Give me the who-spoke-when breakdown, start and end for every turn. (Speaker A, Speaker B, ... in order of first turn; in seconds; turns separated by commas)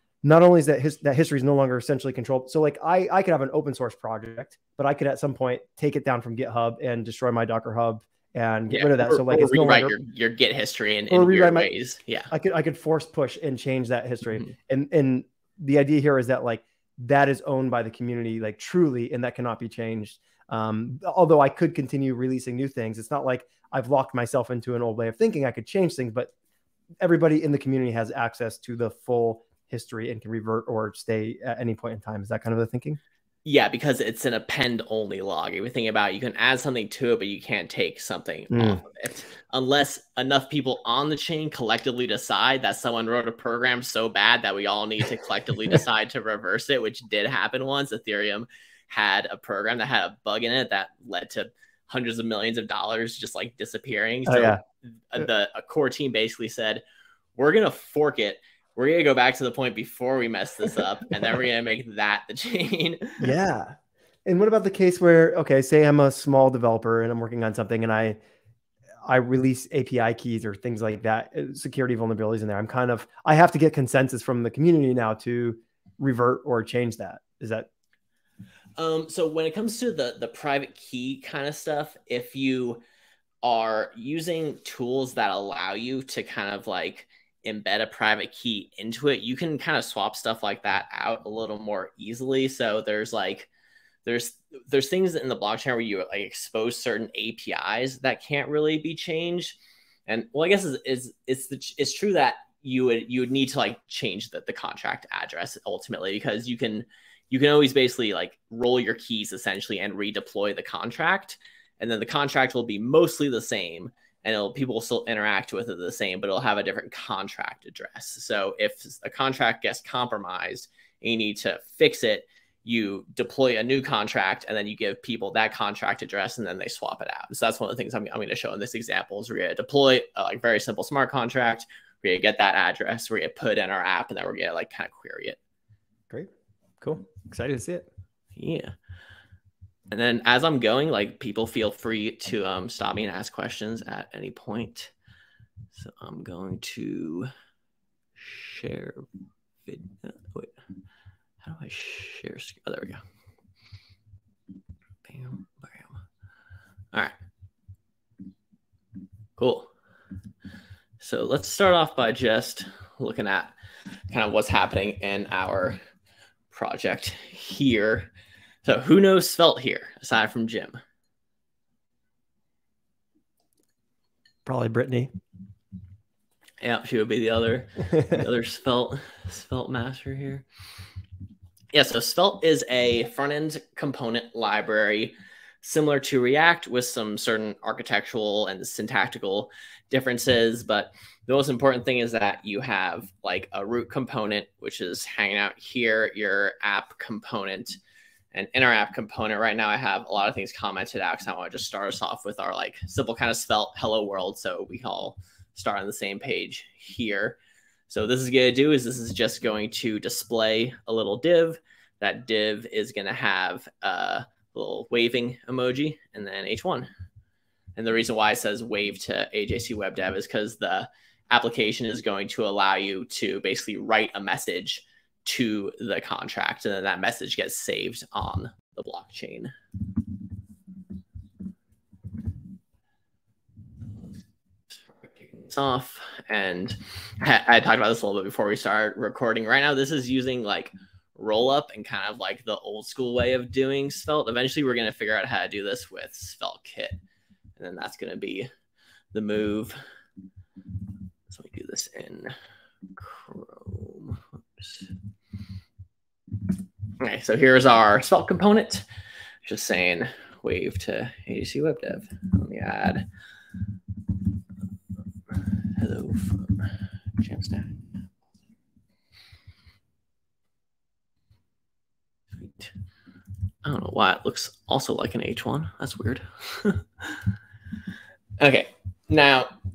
Speaker A: 0.2-10.0, Speaker B: 8.7-12.3, Speaker A: 11.1-11.7, Speaker A: 12.3-26.3, Speaker A: 27.0-33.0, Speaker B: 33.5-56.8, Speaker A: 38.5-38.8, Speaker A: 54.3-54.6, Speaker B: 57.4-63.3, Speaker A: 63.2-68.2, Speaker A: 69.0-77.7, Speaker B: 78.8-82.8, Speaker B: 83.4-93.5, Speaker B: 94.0-135.4, Speaker A: 136.1-137.9, Speaker B: 138.4-138.7, Speaker B: 139.9-144.9, Speaker B: 145.7-147.3, Speaker B: 148.2-149.1, Speaker B: 149.7-150.5, Speaker B: 151.4-153.0, Speaker B: 155.1-156.0, Speaker B: 159.4-159.7, Speaker B: 161.0-163.5, Speaker B: 164.1-165.8, Speaker B: 166.5-168.1, Speaker B: 168.7-170.8, Speaker A: 174.5-175.1, Speaker B: 176.6-180.4, Speaker B: 181.7-197.8, Speaker B: 198.3-207.4, Speaker B: 207.9-216.9, Speaker B: 217.8-229.5, Speaker B: 235.3-247.0, Speaker B: 247.6-248.5, Speaker B: 249.1-249.8, Speaker B: 251.3-252.3, Speaker B: 253.0-254.9, Speaker B: 257.0-258.9, Speaker B: 259.4-263.1, Speaker B: 265.8-267.8, Speaker B: 272.4-272.7, Speaker B: 273.6-277.2, Speaker B: 278.4-279.6